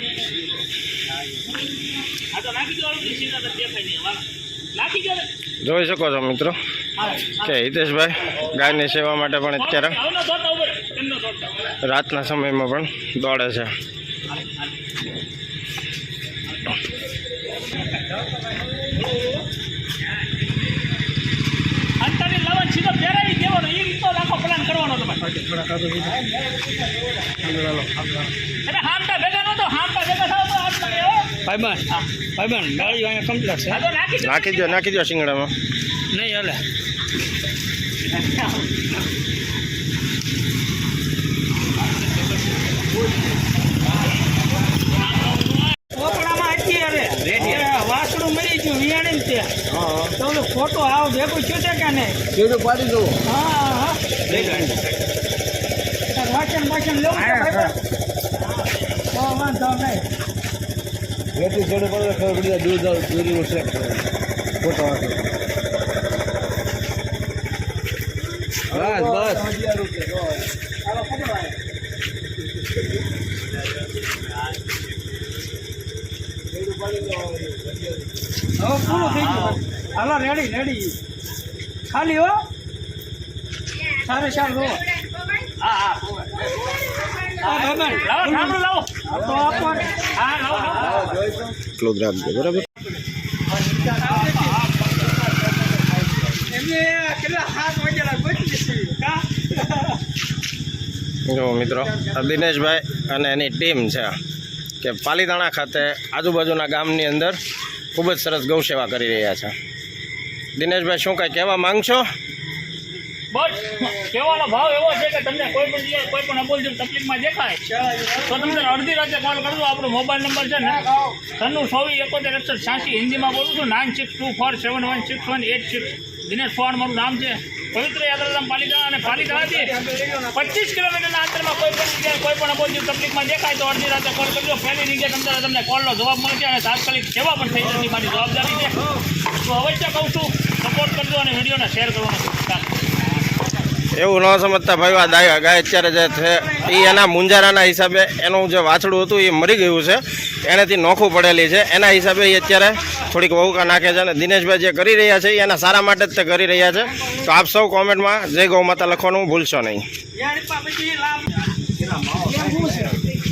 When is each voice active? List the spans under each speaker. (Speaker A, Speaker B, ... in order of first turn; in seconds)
Speaker A: 2.3-5.3, 7.0-7.5, 9.6-11.6, 22.0-25.4, 28.6-31.3, 33.7-34.8, 85.6-86.2, 87.5-88.9, 90.2-91.1, 93.9-95.1, 113.3-129.8, 130.3-142.7
Speaker B: 5.6-6.6, 7.4-10.0, 11.8-13.7, 34.2-35.5, 49.8-50.0, 54.3-54.7, 68.8-69.3, 91.8-92.7, 101.3-104.1, 104.8-107.4, 107.9-109.5, 110.5-112.0, 143.9-159.8
Speaker C: 25.5-26.1, 52.3-53.2, 54.3-54.8, 57.4-57.6, 61.3-64.0, 64.6-65.2, 68.7-70.3, 76.6-77.8, 90.9-91.5
Speaker D: 25.8-26.1, 27.4-28.1, 31.4-33.8, 36.1-36.6, 45.9-49.5, 50.2-52.2, 53.2-54.2, 56.1-57.7, 59.1-60.0, 70.9-71.5, 78.6-80.9, 81.9-82.4, 84.0-84.9, 87.4-91.2, 93.6-94.6, 96.3-100.0, 101.8-102.2, 117.7-118.5, 129.2-130.3, 160.2-163.0